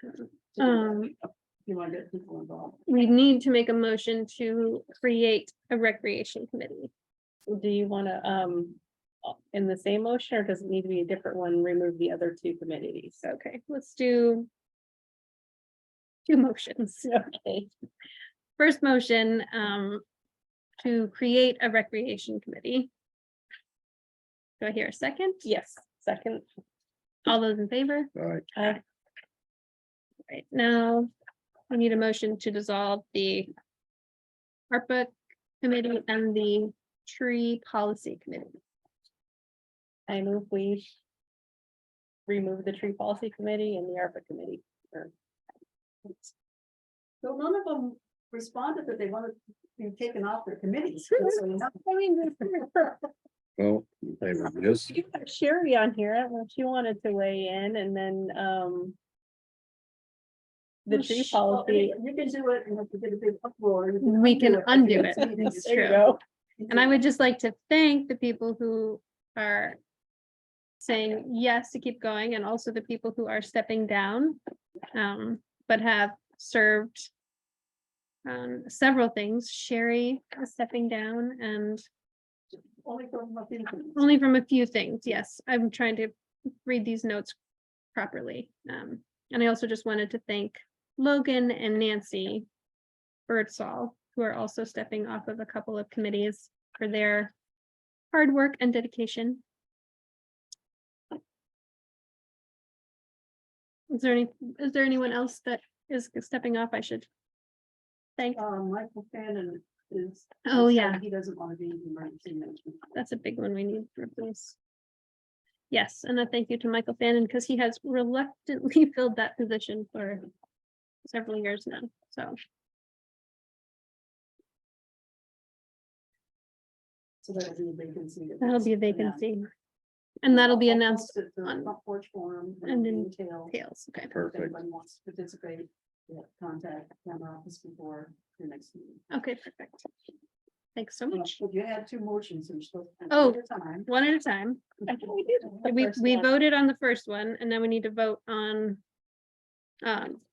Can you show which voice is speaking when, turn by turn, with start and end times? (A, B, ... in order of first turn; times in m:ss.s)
0:00.5-0:02.8 A
0:00.6-0:01.1 B
0:02.9-0:06.9 B
0:07.5-0:13.2 C
0:13.2-0:14.5 B
0:16.2-0:17.1 B
0:17.0-0:17.7 C
0:18.6-0:20.0 B
0:20.8-0:22.9 B
0:24.6-0:25.4 B
0:25.4-0:26.4 C
0:27.2-0:28.1 B
0:28.2-0:28.4 D
0:28.6-0:28.8 C
0:30.3-0:31.1 B
0:31.7-0:33.5 B
0:34.7-0:38.6 B
0:40.1-0:40.9 C
0:42.3-0:45.1 C
0:47.2-0:51.8 A
0:51.9-0:52.9 C
0:53.6-0:54.9 D
0:54.9-0:59.0 C
1:00.8-1:01.9 C
1:00.9-1:01.4 B
1:01.5-1:06.0 A
1:04.0-1:06.1 B
1:05.2-1:06.2 C
1:06.6-1:07.0 A
1:06.7-1:09.8 B
1:10.8-1:14.4 B
1:14.9-1:17.1 B
1:18.2-1:21.8 B
1:22.5-1:24.1 A
1:24.0-1:26.1 B
1:26.6-1:27.4 B
1:27.9-1:32.5 B
1:33.3-1:37.3 B
1:38.1-1:39.4 B
1:43.9-1:47.1 B
1:48.3-1:52.9 A
1:50.4-1:51.0 B
1:52.9-1:54.6 B
1:55.7-2:00.3 B
2:01.0-2:02.4 B
2:07.2-2:09.2 A
2:08.4-2:09.5 B
2:10.2-2:11.7 B
2:10.3-2:13.5 A
2:12.6-2:14.1 B
2:14.1-2:14.5 D
2:14.1-2:19.0 A
2:19.1-2:19.9 B
2:20.8-2:21.3 B
2:21.1-2:23.9 A
2:23.1-2:25.0 B
2:24.9-2:26.3 C
2:25.4-2:25.8 A
2:25.5-2:28.8 B
2:29.8-2:30.2 B